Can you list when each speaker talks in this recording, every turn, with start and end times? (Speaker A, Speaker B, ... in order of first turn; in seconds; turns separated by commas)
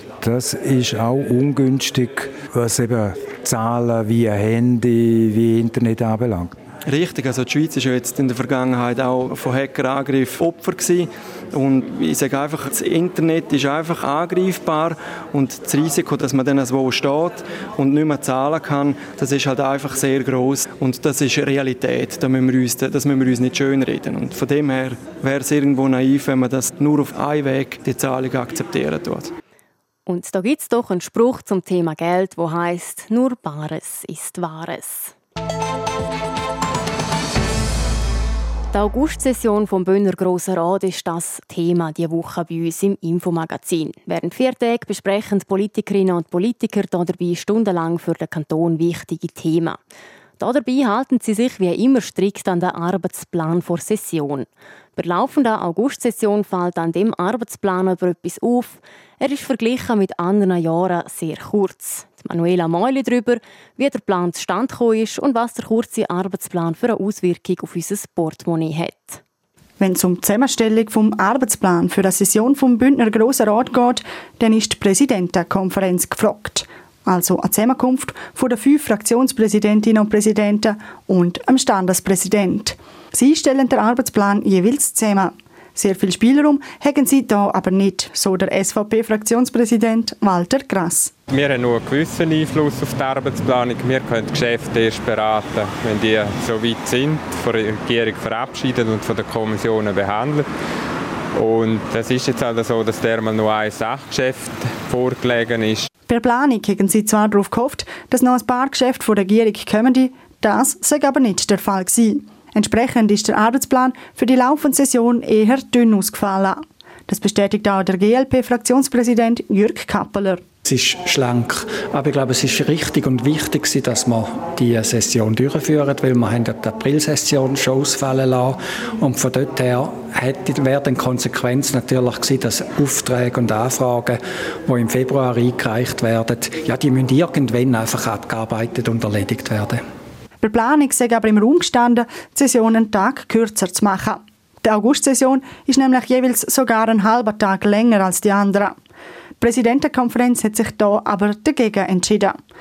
Speaker A: 0.2-6.5, Speaker B: 6.9-29.3, Speaker C: 30.1-35.1, Speaker C: 38.7-49.8, Speaker C: 50.4-69.2, Speaker D: 69.8-91.1, Speaker E: 91.3-100.5, Speaker E: 101.3-105.9, Speaker D: 106.1-120.4, Speaker F: 120.6-139.8, Speaker D: 140.4-148.8, Speaker D: 149.4-152.4